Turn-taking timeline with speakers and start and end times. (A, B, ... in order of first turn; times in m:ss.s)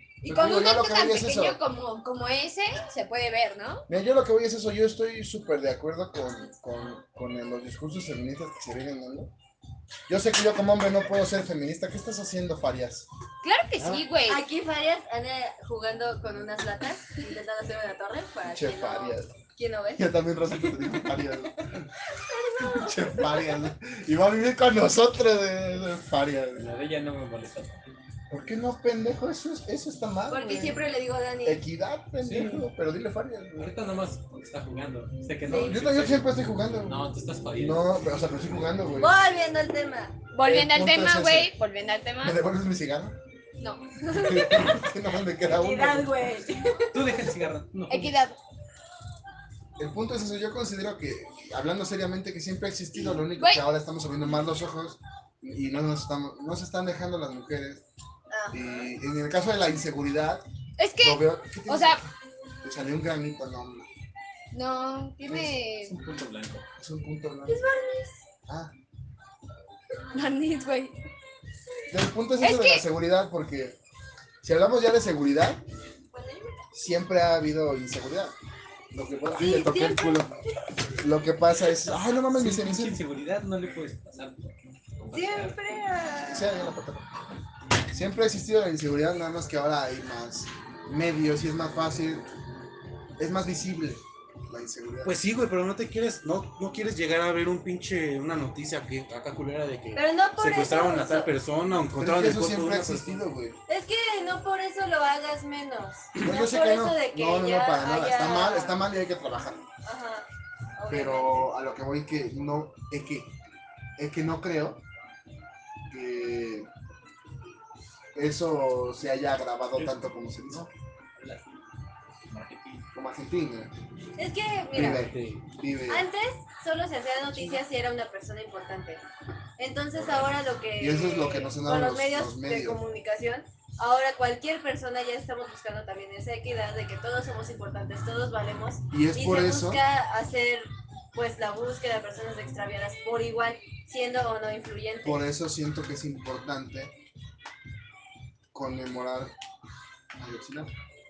0:00.2-0:03.8 A
0:00.2-0:01.6 B
0:03.9-0:09.3 B
0:10.1-0:13.1 B
0:13.4-0:14.4 A
0:13.8-0:14.0 B
0:14.2-0:20.1 C
0:18.5-0:19.4 B
0:20.0-0:21.8 B
0:22.2-0:23.5 C
0:22.6-0:26.7 B
0:26.6-0:27.9 D
0:28.3-0:30.8 B
0:30.3-0:31.6 C
0:31.4-0:33.7 B
0:32.2-0:32.6 D
0:33.6-0:37.9 D
0:35.5-0:35.8 C
0:35.5-0:39.2 B
0:39.0-0:40.2 C
0:40.3-0:42.4 A
0:40.4-0:41.5 B
0:42.2-0:43.2 B
0:43.6-0:44.7 A
0:44.1-0:46.2 B
0:45.4-0:47.1 C
0:46.9-0:48.2 D
0:47.9-0:48.4 A
0:49.8-0:57.8 B
0:53.4-0:53.6 A
0:58.3-0:58.9 C
0:58.5-1:00.4 B
1:00.8-1:02.0 A
1:01.0-1:02.1 B
1:02.6-1:03.9 B
1:04.5-1:05.9 A
1:05.3-1:05.5 B
1:05.8-1:06.6 D
1:06.8-1:07.6 B
1:07.5-1:08.2 C
1:08.5-1:08.7 B
1:10.1-1:10.9 A
1:11.9-1:13.8 B
1:12.4-1:12.8 A
1:14.4-1:15.6 B
1:16.1-1:16.6 C
1:16.7-1:18.3 B
1:18.9-1:20.3 B
1:19.3-1:20.3 C
1:21.0-1:23.0 B
1:22.3-1:25.8 D
1:25.1-1:26.7 C
1:26.3-1:27.1 B
1:27.9-1:32.3 B
1:33.2-1:35.2 B
1:35.0-1:43.2 E
1:39.9-1:41.3 C
1:42.0-1:43.6 B
1:43.7-1:48.8 C
1:46.2-1:49.6 B
1:49.8-1:51.5 C
1:50.9-1:53.3 B
1:54.0-1:54.8 B
1:55.9-1:56.7 B
1:58.1-2:00.7 B
1:59.8-2:01.6 D
2:02.3-2:02.8 D
2:02.9-2:03.7 B
2:04.2-2:05.1 C
2:04.7-2:06.1 B
2:04.8-2:05.4 E
2:05.9-2:09.0 C
2:09.6-2:25.2 C
2:10.8-2:12.8 B
2:18.9-2:19.8 B
2:25.0-2:26.9 B
2:28.5-2:29.3 B
2:30.2-2:30.7 B